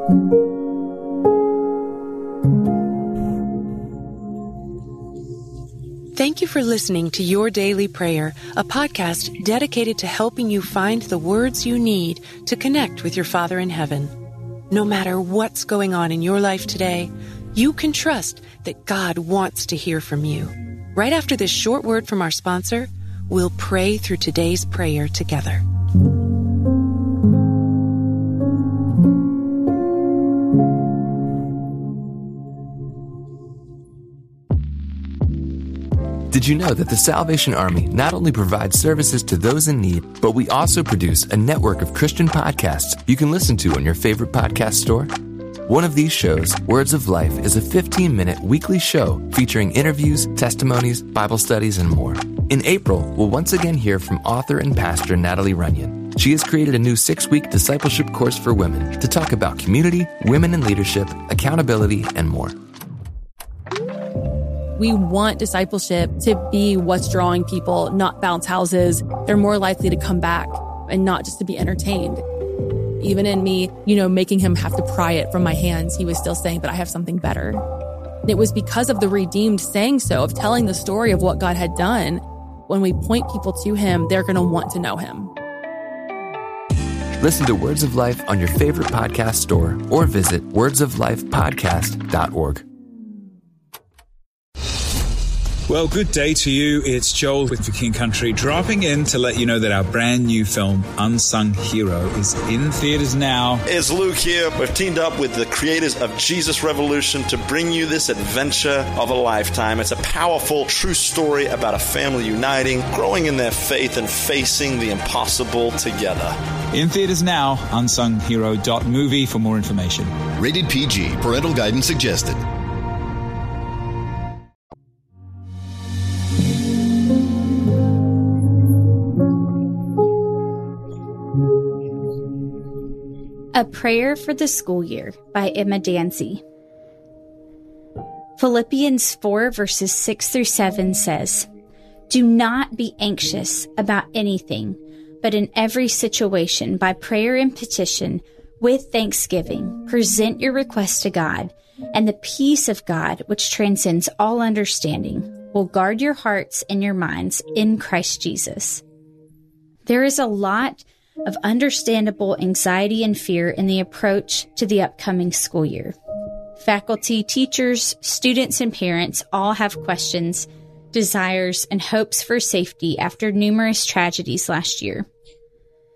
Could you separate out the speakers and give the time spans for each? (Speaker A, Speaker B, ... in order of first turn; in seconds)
Speaker A: 6.1-14.1, 14.7-25.6
Speaker B: 36.3-45.1, 45.7-62.5, 87.2-92.6
Speaker C: 64.8-72.2, 73.0-77.6, 78.2-85.3
Speaker D: 95.7-103.6, 116.7-120.1
Speaker E: 103.6-116.4
Speaker F: 120.3-122.4
Speaker G: 133.5-136.4, 138.4-141.5, 142.1-158.8, 159.8-165.9, 166.6-175.0